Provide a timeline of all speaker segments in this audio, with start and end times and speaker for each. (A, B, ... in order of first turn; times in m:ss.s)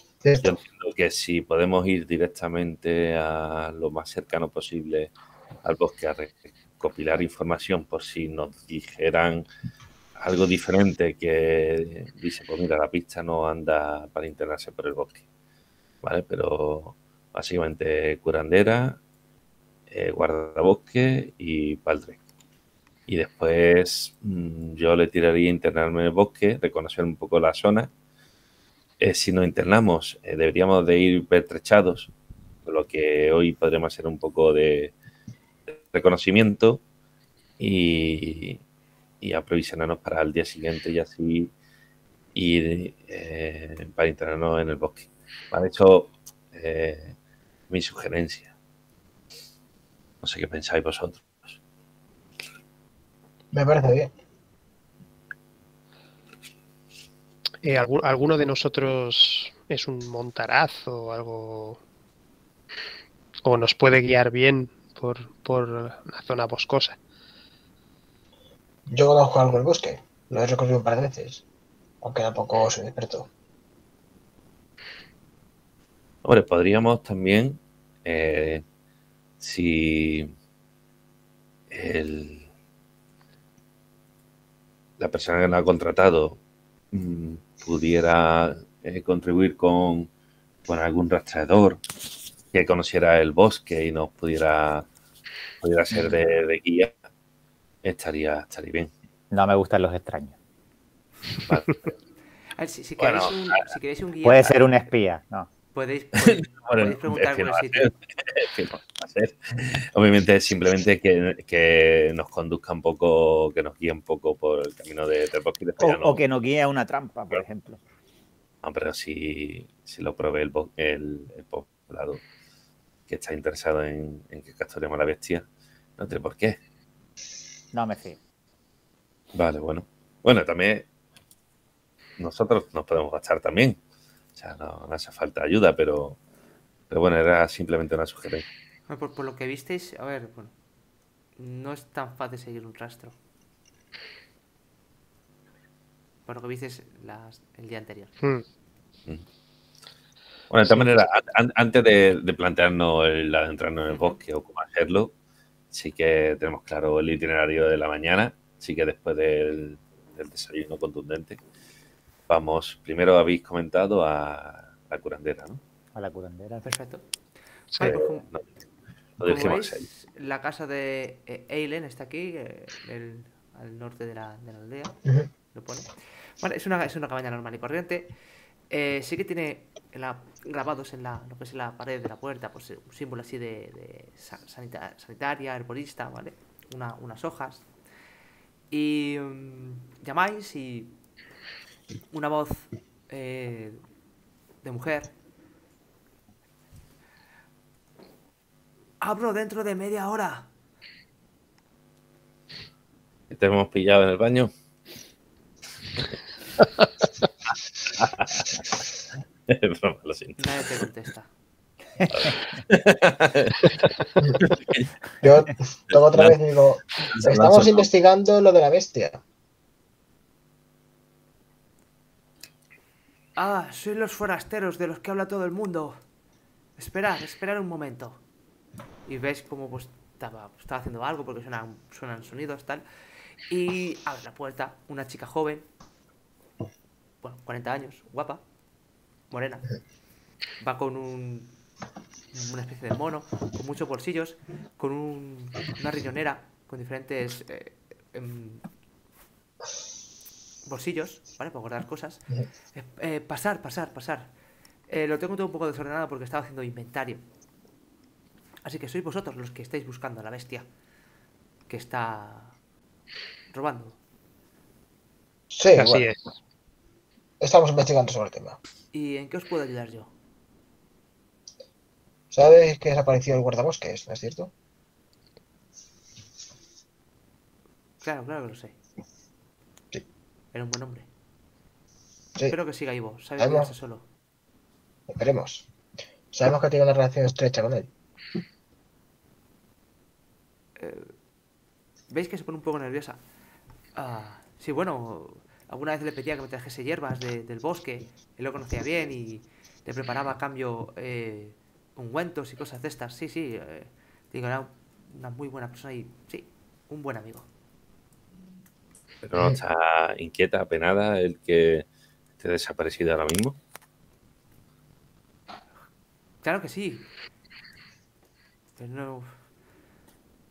0:00.2-0:00.5 A
0:00.4-0:09.4 B
0:10.2-0:15.2 B
0:16.0-0:19.0 B
0:19.9-0:22.2 B
0:23.1-0:27.9 B
0:29.0-0:32.1 B
0:32.6-0:34.9 B
0:35.7-0:36.8 B
0:37.6-0:38.6 B
0:39.2-0:41.5 B
0:42.4-0:47.2 B
0:47.7-0:48.5 B
0:50.2-0:51.6 B
0:53.5-0:54.1 A
0:57.6-1:01.8 C
1:03.4-1:07.0 C
1:08.9-1:11.4 A
1:12.0-1:13.3 A
1:16.2-1:18.6 B
1:19.4-1:20.3 B
1:21.7-1:22.5 B
1:25.0-1:26.4 B
1:26.9-1:30.1 B
1:30.6-1:31.8 B
1:32.5-1:34.9 B
1:35.6-1:36.9 B
1:35.9-1:36.2 D
1:37.8-1:38.9 B
1:39.3-1:40.4 D
1:41.4-1:41.9 B
1:42.6-1:44.9 E
1:43.0-1:43.7 B
1:44.2-1:45.5 D
1:45.7-1:47.9 E
1:46.2-1:56.2 B
1:55.8-1:57.8 D
1:58.6-2:02.2 B
2:03.1-2:05.5 B
2:06.0-2:06.6 B
2:07.7-2:08.2 D
2:09.3-2:10.9 B
2:12.2-2:13.8 B
2:14.4-2:16.2 B
2:16.9-2:18.5 B
2:18.9-2:20.5 E
2:21.4-2:23.2 E
2:26.2-2:28.2 E
2:30.5-2:35.1 B
2:30.6-2:31.0 C
2:33.9-2:34.2 E
2:35.7-2:41.4 B
2:42.3-2:45.6 B
2:45.9-2:46.7 D
2:46.6-2:47.0 E
2:47.7-2:48.0 C
2:47.8-2:48.3 E
2:47.8-2:48.4 B
2:49.2-2:49.9 B
2:49.2-2:55.0 E
2:55.5-2:58.1 E
2:58.7-3:07.7 E
3:08.7-3:11.0 E
3:12.1-3:13.8 E
3:14.6-3:15.1 E
3:19.0-3:20.5 E
3:23.3-3:24.5 B
3:28.0-3:28.6 B
3:29.5-3:30.4 B
3:30.4-3:31.3 E
3:32.1-3:33.8 B
3:34.4-3:34.9 B
3:35.2-3:39.2 A
3:35.9-3:36.4 B
3:37.0-3:37.8 B
3:43.4-3:46.0 E
3:46.8-3:48.2 E
3:49.0-3:52.8 E
3:53.5-3:55.7 E
3:57.2-3:58.4 E
3:59.3-3:59.8 E
4:00.6-4:01.5 E
4:02.3-4:08.6 E
4:10.7-4:14.3 E
4:14.9-4:17.2 E
4:18.6-4:20.7 E
4:21.7-4:22.6 E
4:23.5-4:24.0 E
4:25.5-4:26.1 A
4:25.8-4:26.3 C
4:27.4-4:28.6 A
4:28.9-4:30.1 E
4:32.3-4:34.5 A
4:38.0-4:38.8 E
4:40.5-4:41.1 E
4:42.5-4:44.0 E
4:43.4-4:43.7 A
4:45.1-4:45.7 A
4:46.3-4:47.9 A
4:50.8-4:51.2 E
4:52.1-4:53.2 E
4:54.0-5:07.5 E
5:09.2-5:11.9 B
5:12.4-5:13.6 B
5:16.4-5:17.1 E
5:18.8-5:19.3 E